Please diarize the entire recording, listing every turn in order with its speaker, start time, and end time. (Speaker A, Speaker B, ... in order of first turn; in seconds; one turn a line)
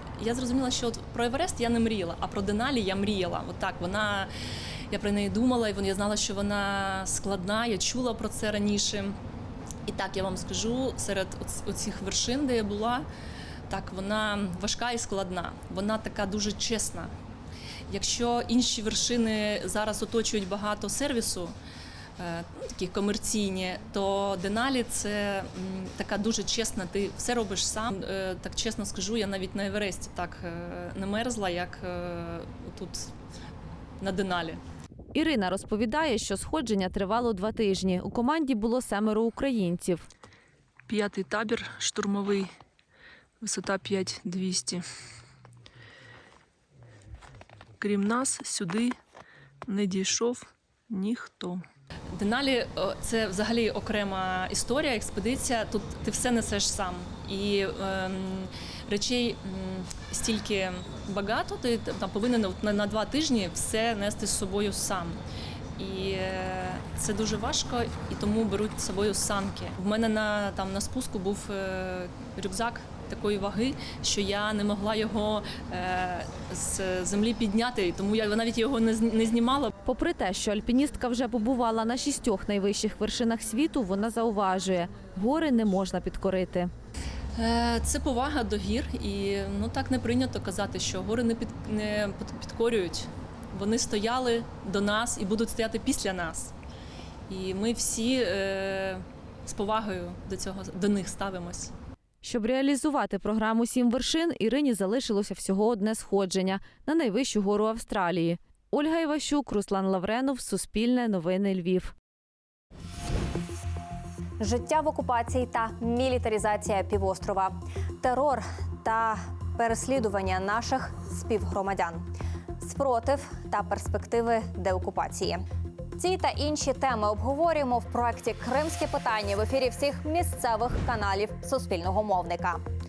Speaker A: 0.2-4.3
Speaker A: 4.9-9.2
Speaker A: 9.9-13.1
Speaker A: 13.7-17.1
Speaker A: 17.9-21.5
Speaker A: 22.2-33.1
Speaker A: 34.0-34.6
Speaker B: 35.1-40.0
Speaker C: 40.9-42.5
Speaker C: 43.4-44.8
Speaker C: 47.8-49.0
Speaker C: 49.7-51.6
Speaker A: 52.2-65.2
Speaker A: 65.8-79.7
Speaker B: 79.8-86.7
Speaker A: 87.4-96.5
Speaker A: 97.3-101.7
Speaker B: 102.2-111.9
Speaker D: 114.4-122.1
Speaker D: 122.6-125.4
Speaker D: 126.0-132.6